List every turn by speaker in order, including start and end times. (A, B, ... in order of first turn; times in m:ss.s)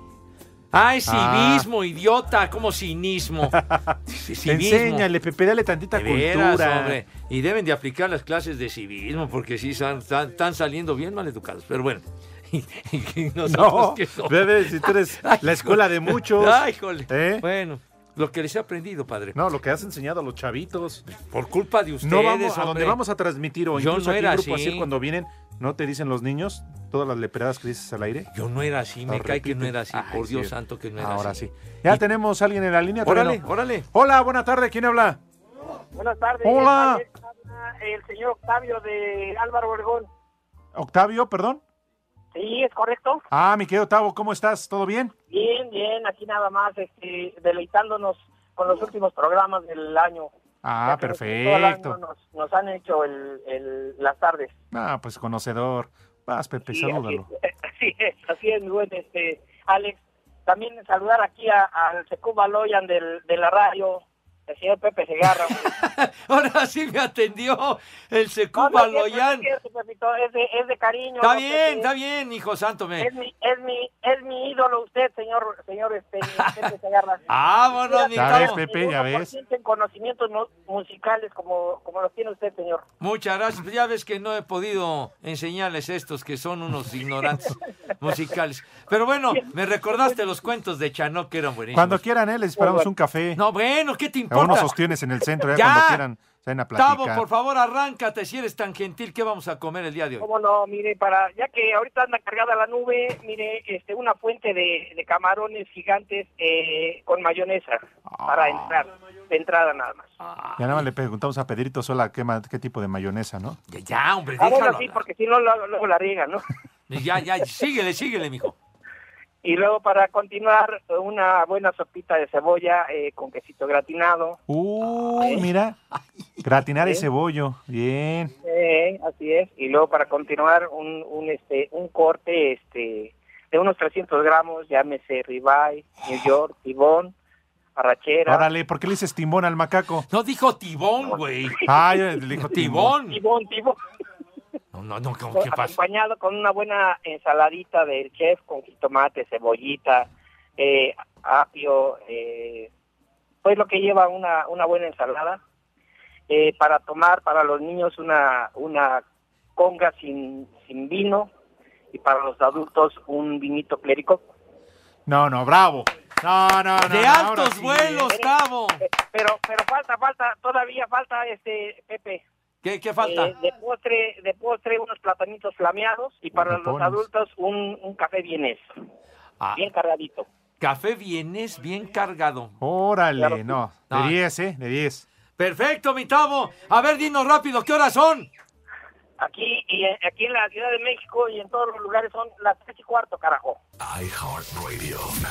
0:00.7-0:03.6 A
0:01.1-0:01.7 B
0:03.5-0:07.0 B
0:04.1-0:05.1 A
0:05.9-0:19.4 A
0:13.4-0:17.4 B
0:19.4-0:21.0 B
0:21.1-0:23.0 A
0:22.0-0:28.3 B
0:23.8-0:24.9 A
0:28.3-0:32.0 A
0:29.1-0:35.2 B
0:33.0-0:33.9 A
0:36.0-0:40.1 C
0:36.4-0:37.0 B
0:40.7-0:41.6 B
0:42.3-0:43.2 C
0:43.3-0:45.1 B
0:45.3-0:50.3 C
0:50.6-0:52.0 B
0:50.9-0:54.6 C
0:54.7-0:57.3 B
0:56.7-1:05.7 C
1:05.5-1:09.5 A
1:08.6-1:11.9 C
1:11.2-1:13.1 A
1:13.0-1:17.2 C
1:16.3-1:16.7 A
1:17.3-1:18.6 A
1:17.9-1:22.8 C
1:18.1-1:19.3 B
1:23.0-1:32.0 A
1:31.7-1:33.4 B
1:32.6-1:32.9 C
1:33.4-1:34.8 A
1:34.3-1:37.2 B
1:35.5-1:36.0 A
1:36.8-1:40.2 A
1:40.2-1:50.1 C
1:48.1-1:48.8 B
1:50.2-1:50.8 A
1:50.6-1:53.6 B
1:53.7-1:55.0 A
1:54.4-1:56.4 C
1:56.9-1:58.6 A
1:59.4-2:04.4 C
2:04.5-2:05.8 B
2:04.9-2:05.4 A
2:06.4-2:08.3 B
2:08.4-2:17.1 C
2:17.8-2:18.5 C
2:18.3-2:20.1 B
2:20.1-2:21.6 A
2:21.6-2:23.0 B
2:22.5-2:23.2 A
2:23.1-2:23.8 C
2:24.7-2:25.8 A
2:25.4-2:32.7 C
2:33.4-2:35.4 C
2:36.3-2:39.0 C
2:39.6-2:41.3 C
2:41.9-2:44.3 C
2:45.1-2:48.1 B
2:46.8-2:48.8 A
2:48.0-2:52.2 C
2:52.6-2:53.3 A
2:53.0-2:58.6 C
2:56.3-2:57.0 B
2:59.6-3:00.3 C
3:00.6-3:02.6 A
3:02.6-3:05.0 B
3:03.2-3:03.4 C
3:03.9-3:04.2 A
3:05.4-3:08.3 A
3:09.2-3:13.6 C